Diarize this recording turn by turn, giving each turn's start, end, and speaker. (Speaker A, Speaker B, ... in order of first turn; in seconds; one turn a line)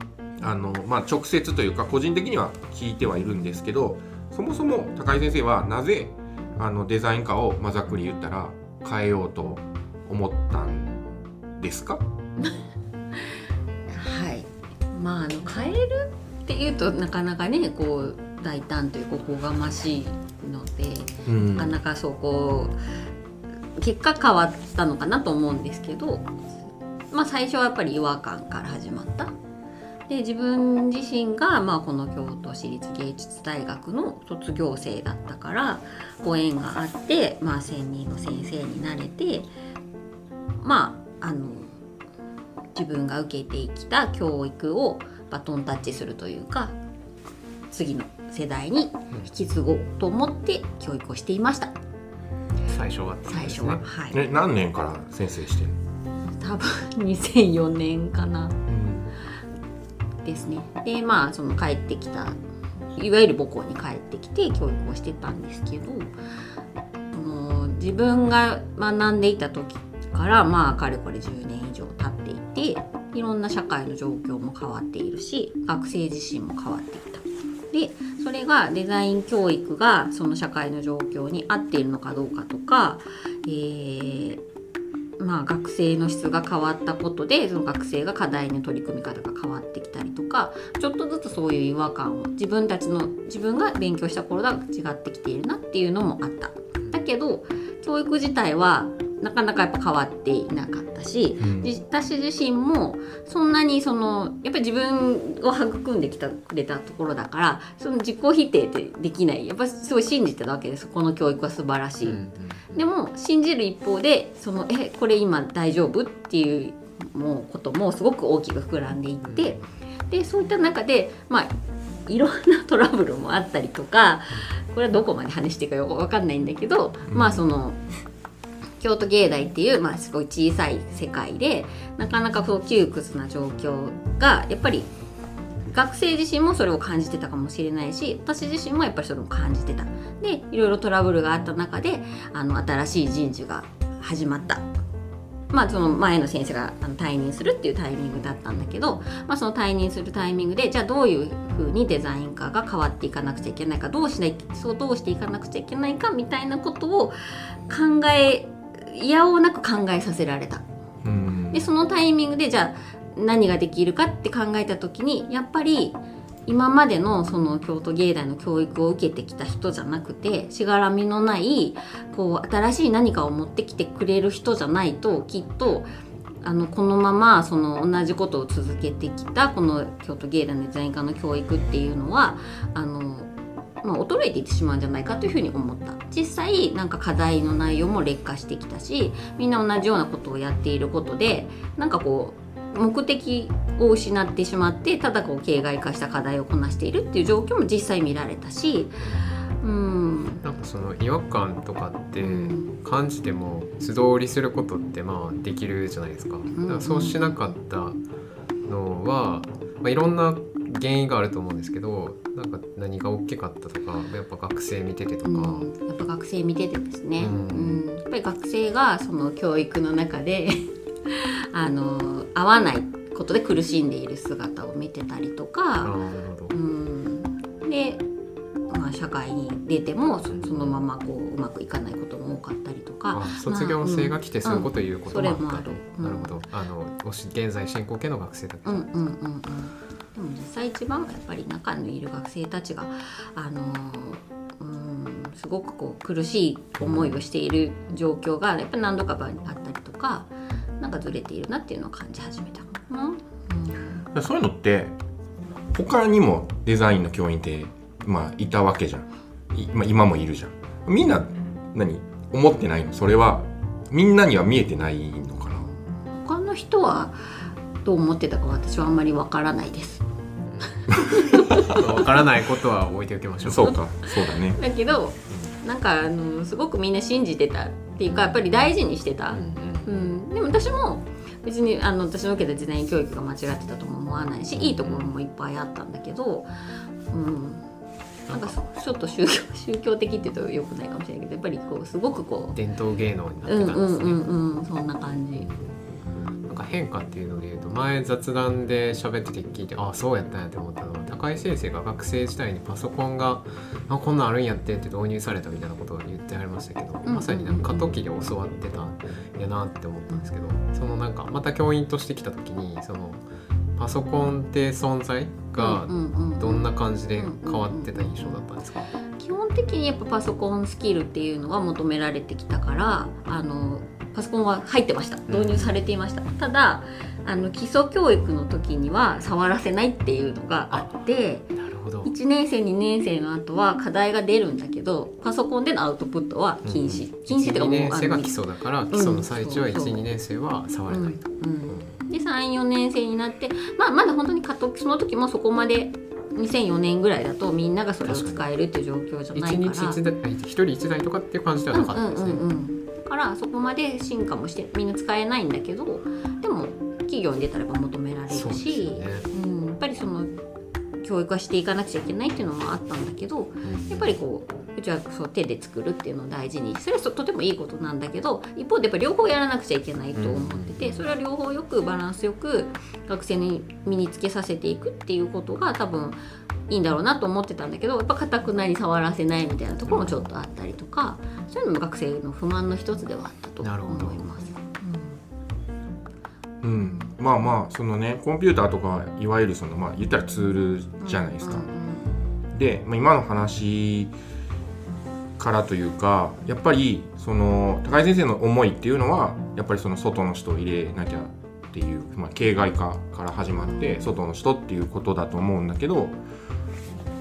Speaker A: 0.4-11.0
Speaker A: 11.6-12.0
Speaker B: 13.9-22.8
Speaker A: 21.2-21.7
Speaker B: 23.8-26.3
Speaker B: 27.1-29.3
Speaker B: 30.1-39.5
Speaker B: 40.6-41.8
Speaker B: 42.7-46.7
Speaker B: 47.7-51.7
Speaker C: 52.6-53.8
Speaker B: 53.3-54.2
Speaker A: 54.1-55.8
Speaker B: 56.2-58.6
Speaker A: 58.7-59.1
Speaker B: 60.2-62.4
Speaker B: 62.9-66.1
Speaker B: 67.1-84.4
Speaker B: 85.2-121.5
Speaker A: 101.4-101.7
Speaker C: 112.0-112.8
Speaker C: 119.2-119.6
Speaker B: 122.1-127.8
Speaker A: 127.1-127.4
Speaker B: 128.8-134.9
Speaker B: 135.7-144.7
Speaker B: 145.5-160.7
Speaker A: 161.0-161.7
Speaker B: 161.5-175.9
Speaker B: 176.4-183.3
Speaker B: 183.8-199.0
Speaker C: 199.0-199.3
Speaker B: 199.6-200.4
Speaker C: 200.4-208.0
Speaker B: 202.2-202.7
Speaker B: 206.5-207.4
Speaker C: 208.6-215.7
Speaker B: 215.2-225.9
Speaker C: 217.2-217.8
Speaker C: 225.8-226.6
Speaker B: 226.5-228.1
Speaker B: 228.7-236.4
Speaker C: 230.3-230.8
Speaker C: 233.1-239.0
Speaker B: 238.7-254.1
Speaker C: 246.8-247.2
Speaker A: 254.1-255.0
Speaker A: 255.7-265.7
Speaker B: 266.1-270.0
Speaker C: 270.5-270.8
Speaker B: 270.9-271.5
Speaker A: 270.9-271.8
Speaker C: 271.6-273.8
Speaker A: 273.4-274.6
Speaker B: 273.6-286.5
Speaker C: 275.3-275.6
Speaker C: 279.3-280.1
Speaker C: 284.5-285.1
Speaker B: 287.1-287.6
Speaker C: 288.3-288.6
Speaker B: 288.3-292.6
Speaker C: 292.5-294.2
Speaker B: 293.4-295.5
Speaker C: 295.4-313.2
Speaker B: 307.0-307.9
Speaker C: 313.8-318.9
Speaker B: 315.6-318.4
Speaker B: 319.1-331.5
Speaker C: 325.3-325.7
Speaker C: 330.7-331.0
Speaker C: 331.5-332.1
Speaker B: 332.0-338.4
Speaker C: 336.6-342.0
Speaker B: 338.9-340.0
Speaker B: 340.9-350.0
Speaker C: 348.0-348.4
Speaker C: 349.3-352.4
Speaker B: 351.7-360.3
Speaker C: 358.3-359.3
Speaker B: 361.0-376.2
Speaker C: 363.6-364.1
Speaker C: 370.1-371.0
Speaker B: 376.7-385.2
Speaker C: 379.9-380.1
Speaker C: 383.6-384.3
Speaker A: 386.6-391.6
Speaker B: 386.8-387.1
Speaker B: 391.0-392.1
Speaker A: 392.5-394.1
Speaker A: 395.4-406.1
Speaker B: 403.6-404.1